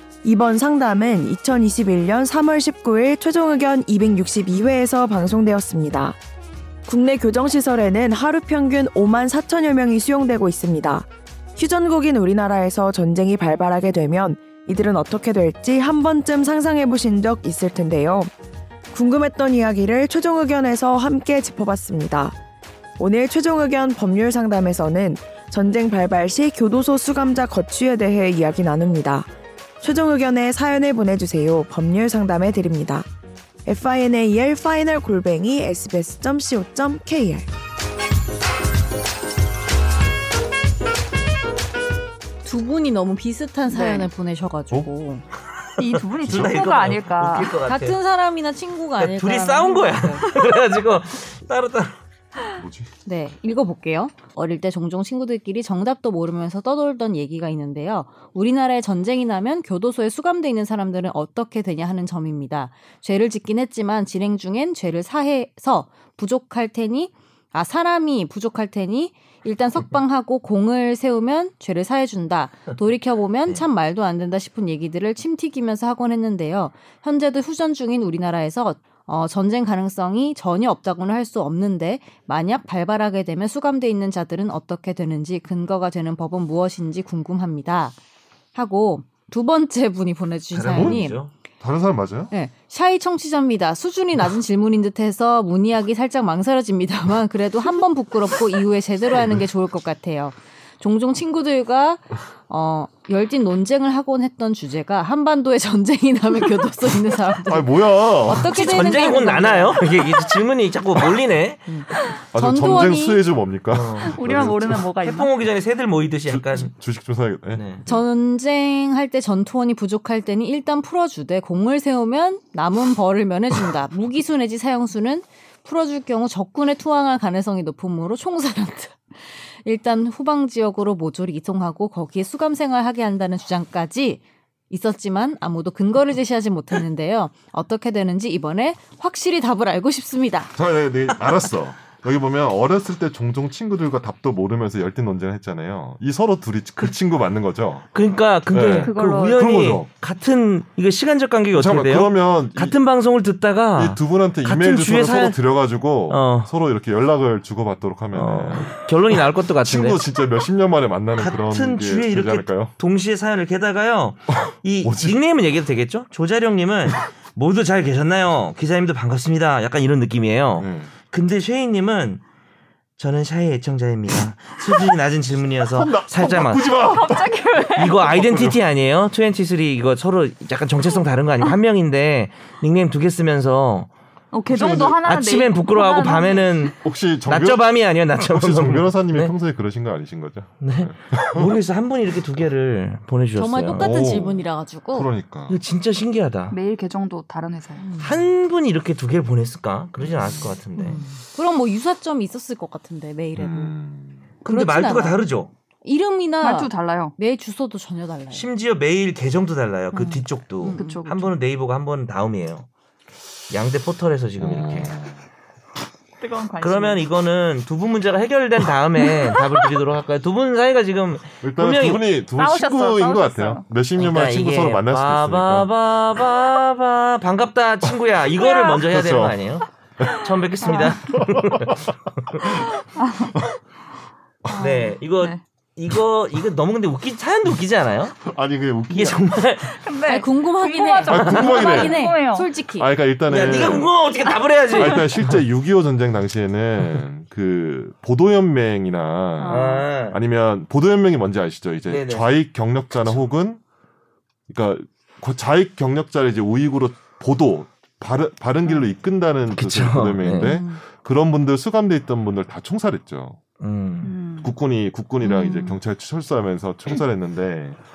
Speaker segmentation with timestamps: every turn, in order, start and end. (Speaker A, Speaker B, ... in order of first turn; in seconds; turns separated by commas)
Speaker A: 0.2-6.2, Speaker A: 6.9-18.3, Speaker A: 18.9-22.4, Speaker A: 23.0-29.3, Speaker A: 29.8-33.1, Speaker A: 33.6-37.5, Speaker B: 42.4-45.2, Speaker C: 43.7-44.1, Speaker C: 45.8-47.6, Speaker D: 45.8-48.0, Speaker E: 46.2-46.6, Speaker B: 47.6-50.4, Speaker D: 49.0-52.0, Speaker E: 52.6-52.9, Speaker B: 53.0-87.9, Speaker B: 88.5-91.2, Speaker D: 90.5-91.3, Speaker E: 90.7-91.1, Speaker E: 91.6-92.3, Speaker B: 92.3-109.9, Speaker E: 107.5-108.8, Speaker D: 108.3-111.7, Speaker B: 111.7-113.2, Speaker E: 112.3-114.9, Speaker D: 113.7-114.2, Speaker C: 114.0-115.3, Speaker D: 115.0-116.7, Speaker E: 116.2-118.0, Speaker D: 117.5-117.8, Speaker B: 117.8-140.5, Speaker E: 140.5-147.9, Speaker D: 147.9-155.4, Speaker E: 148.5-149.9, Speaker C: 148.8-149.6, Speaker E: 151.5-152.8, Speaker E: 153.7-162.8, Speaker D: 156.0-156.5, Speaker D: 158.1-160.1, Speaker D: 161.1-172.2, Speaker E: 164.3-165.2, Speaker E: 170.6-170.9, Speaker D: 173.0-176.7, Speaker E: 175.6-178.6, Speaker C: 176.7-178.1, Speaker D: 177.8-183.9, Speaker C: 184.3-186.8, Speaker E: 184.5-185.0, Speaker D: 184.6-189.3, Speaker E: 186.8-191.6, Speaker D: 190.6-193.9, Speaker B: 193.3-195.1, Speaker E: 193.8-195.6, Speaker D: 195.5-196.6, Speaker C: 196.5-197.9, Speaker B: 197.8-198.1, Speaker D: 197.9-201.0, Speaker E: 200.0-200.6, Speaker B: 200.8-203.7, Speaker E: 203.3-204.2, Speaker D: 204.4-205.5, Speaker B: 204.4-205.2, Speaker B: 205.8-208.5, Speaker C: 206.4-207.1, Speaker D: 208.3-212.7, Speaker B: 209.9-211.0, Speaker C: 210.7-211.4, Speaker D: 213.5-214.9, Speaker E: 214.4-215.2, Speaker C: 216.2-217.1, Speaker D: 216.6-222.1, Speaker E: 221.4-225.7, Speaker C: 222.3-223.6, Speaker D: 223.9-231.8, Speaker C: 228.5-228.8, Speaker E: 228.9-229.4, Speaker E: 230.0-230.2, Speaker C: 230.6-230.9, Speaker E: 230.9-231.9, Speaker C: 233.0-233.3, Speaker C: 234.5-235.4, Speaker D: 234.5-238.2, Speaker E: 238.2-239.3, Speaker D: 238.9-239.8, Speaker C: 239.7-242.5, Speaker B: 240.1-242.9, Speaker E: 241.0-242.0, Speaker D: 241.6-241.9, Speaker E: 242.7-243.9, Speaker D: 243.3-245.1, Speaker E: 244.7-253.6, Speaker D: 249.4-250.2, Speaker D: 251.9-252.3, Speaker E: 254.5-263.4, Speaker D: 259.5-260.6, Speaker B: 260.3-260.8, Speaker D: 263.6-264.1, Speaker C: 264.0-264.5, Speaker E: 264.4-267.8, Speaker B: 265.2-265.8